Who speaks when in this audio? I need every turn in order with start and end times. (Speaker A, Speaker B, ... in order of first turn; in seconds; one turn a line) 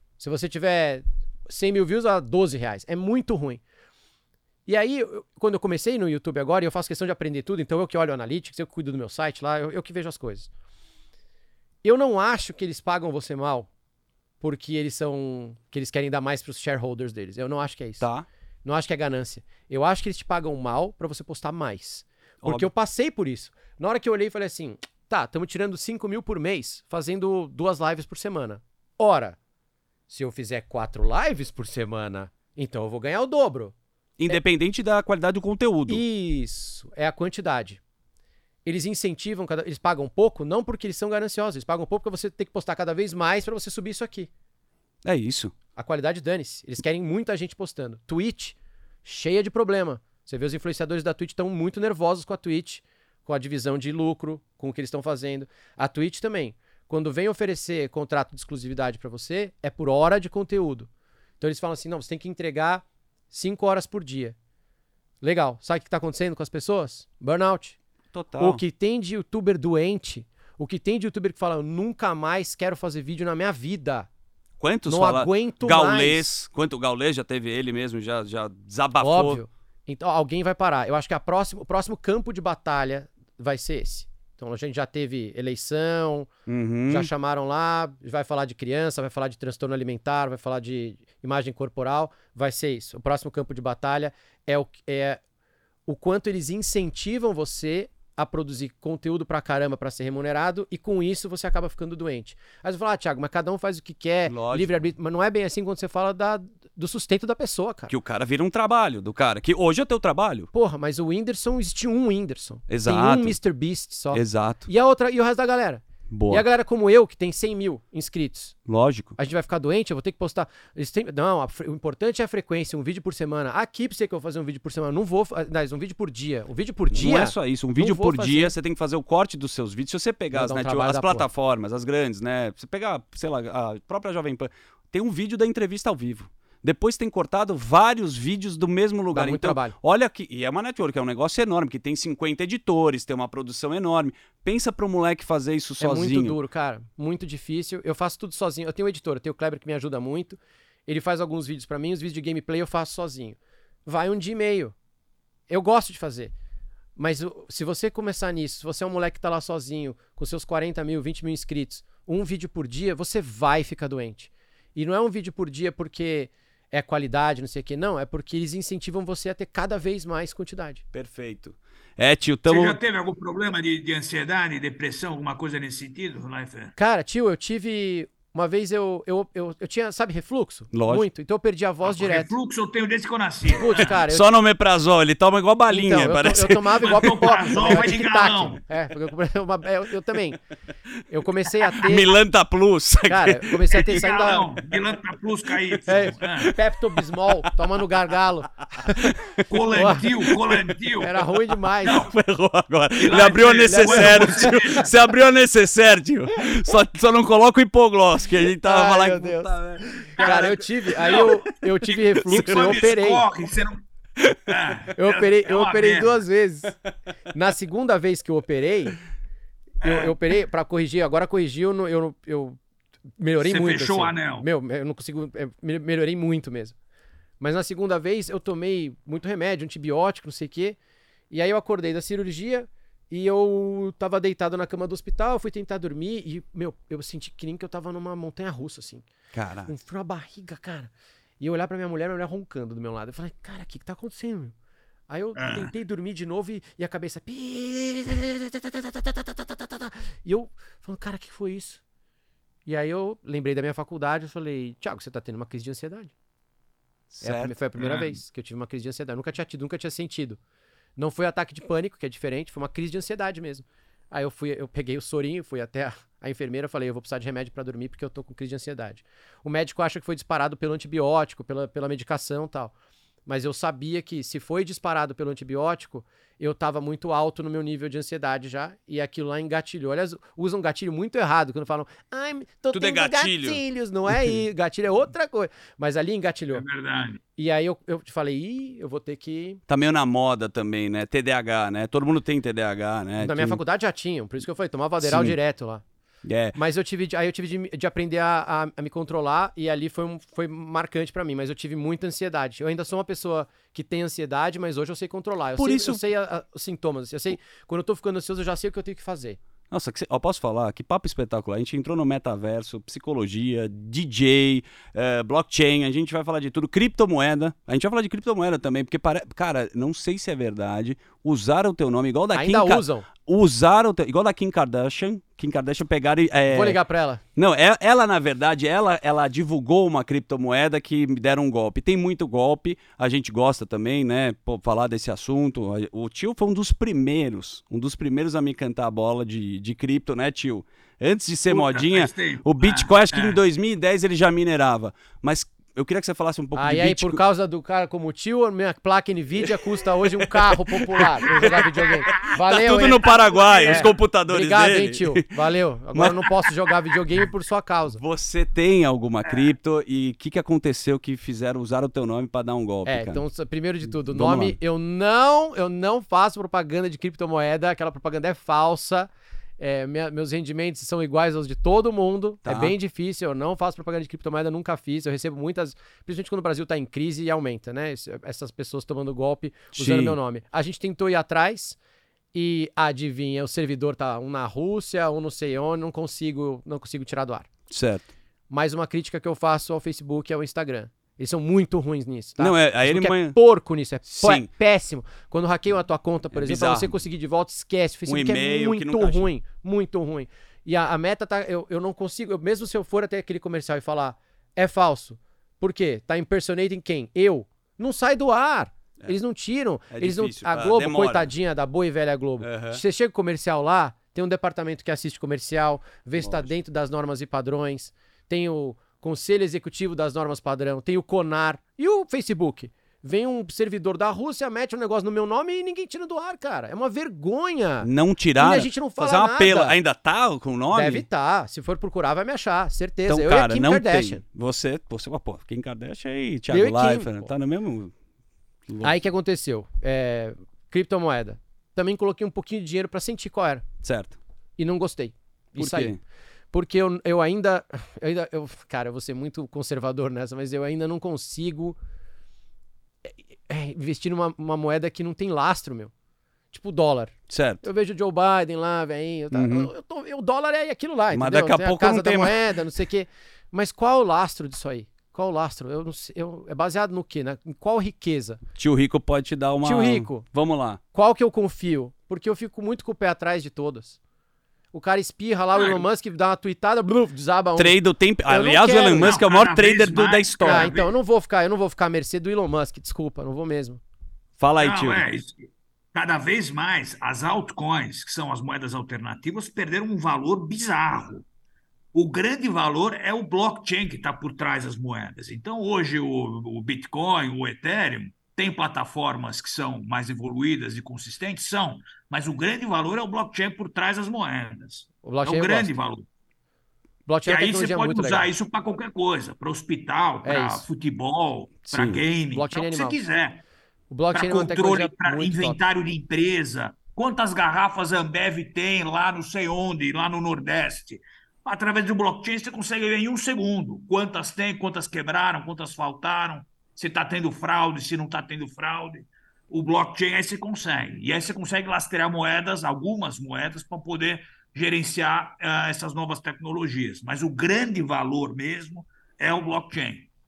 Speaker A: 0.2-3.6
Speaker A: 4.7-10.5
Speaker A: 11.8-13.7
Speaker A: 14.4-18.0
Speaker B: 18.0-18.3
Speaker A: 18.6-29.4
Speaker B: 22.4-22.7
Speaker A: 30.1-33.7
Speaker B: 34.2-36.0
Speaker A: 35.9-37.8
Speaker A: 38.6-44.3
Speaker B: 45.0-45.5
Speaker A: 45.8-60.9
Speaker A: 61.4-64.3
Speaker A: 65.2-67.8
Speaker B: 68.1-68.6
Speaker A: 68.4-74.1
Speaker B: 74.6-79.4
Speaker A: 74.9-76.2
Speaker A: 79.0-86.3
Speaker B: 86.5-87.1
Speaker A: 86.9-95.2
Speaker A: 95.8-107.9
Speaker B: 104.3-104.7
Speaker B: 107.9-110.5
Speaker A: 110.5-118.5
Speaker B: 112.7-113.3
Speaker B: 114.1-114.7
Speaker B: 116.1-116.4
Speaker B: 118.7-119.2
Speaker A: 119.2-128.5
Speaker B: 126.9-146.3
Speaker A: 130.3-131.2
Speaker A: 139.1-139.7
Speaker A: 145.8-154.7
Speaker A: 155.5-156.3
Speaker A: 156.9-170.8
Speaker B: 170.9-172.8
Speaker C: 172.5-176.7
Speaker A: 176.8-182.3
Speaker B: 180.7-181.0
Speaker C: 181.8-184.0
Speaker A: 183.4-184.3
Speaker B: 184.1-187.8
Speaker A: 185.7-190.4
Speaker C: 186.8-188.6
Speaker A: 191.1-192.1
Speaker B: 191.7-194.0
Speaker A: 193.1-194.5
Speaker C: 193.8-196.5
Speaker A: 195.8-199.1
Speaker B: 195.9-197.7
Speaker B: 198.7-199.4
Speaker C: 199.5-201.2
Speaker A: 199.7-200.1
Speaker A: 201.0-202.1
Speaker B: 201.8-210.5
Speaker C: 201.8-202.1
Speaker C: 203.0-204.9
Speaker A: 203.4-204.8
Speaker A: 208.6-213.2
Speaker C: 210.2-213.8
Speaker C: 214.5-216.2
Speaker A: 214.9-216.8
Speaker A: 217.3-219.0
Speaker C: 219.8-220.1
Speaker A: 219.8-222.6
Speaker A: 223.2-226.8
Speaker C: 223.4-224.4
Speaker A: 227.4-230.8
Speaker A: 231.3-239.1
Speaker B: 239.3-239.7
Speaker A: 239.7-244.5
Speaker A: 245.1-251.8
Speaker C: 245.3-245.7
Speaker A: 252.7-256.1
Speaker B: 257.1-257.6
Speaker A: 257.2-260.4
Speaker C: 257.8-258.1
Speaker A: 261.0-272.7
Speaker A: 273.2-286.6
Speaker B: 282.7-283.6
Speaker C: 286.5-287.2
Speaker A: 287.4-289.6
Speaker B: 289.7-293.6
Speaker A: 293.2-295.8
Speaker B: 295.0-295.4
Speaker B: 296.2-296.6
Speaker A: 296.5-309.4
Speaker B: 305.6-306.0
Speaker B: 309.7-326.8
Speaker A: 322.3-323.1
Speaker A: 326.5-327.2
Speaker B: 327.4-347.2
Speaker C: 341.5-343.4
Speaker A: 346.6-358.0
Speaker B: 350.2-355.3
Speaker C: 351.4-352.3
Speaker C: 353.0-353.9
Speaker B: 355.9-356.4
Speaker B: 357.9-363.2
Speaker A: 362.9-381.8
Speaker B: 363.9-364.6
Speaker B: 372.4-372.7
Speaker B: 379.8-380.2
Speaker A: 382.3-387.5
Speaker B: 387.7-388.1
Speaker A: 388.5-429.8
Speaker B: 392.4-393.4
Speaker B: 394.1-394.5
Speaker B: 396.3-396.9
Speaker B: 398.1-399.3
Speaker B: 409.9-411.3
Speaker B: 412.4-412.8
Speaker B: 416.2-416.5
Speaker B: 427.8-431.0
Speaker A: 430.7-434.2
Speaker B: 433.1-437.9
Speaker A: 436.5-437.3
Speaker B: 438.7-438.9
Speaker A: 438.8-443.6
Speaker B: 443.8-444.2
Speaker A: 444.6-446.0
Speaker B: 445.6-446.0
Speaker A: 446.5-451.8
Speaker A: 453.0-455.9
Speaker A: 456.5-468.4
Speaker B: 457.3-457.6
Speaker B: 459.3-459.7
Speaker B: 461.1-462.4
Speaker B: 468.6-470.8
Speaker A: 469.6-470.2
Speaker A: 470.9-474.0
Speaker A: 474.7-479.1
Speaker C: 475.5-475.8
Speaker B: 477.6-480.7
Speaker C: 478.9-480.9
Speaker A: 480.4-483.8
Speaker B: 484.4-485.0
Speaker C: 484.6-491.2
Speaker C: 491.9-506.1
Speaker A: 505.0-505.7
Speaker A: 507.1-508.3
Speaker C: 507.2-513.4
Speaker A: 510.2-510.6
Speaker B: 511.6-512.0
Speaker A: 512.3-513.0
Speaker A: 513.9-515.6
Speaker C: 514.1-540.1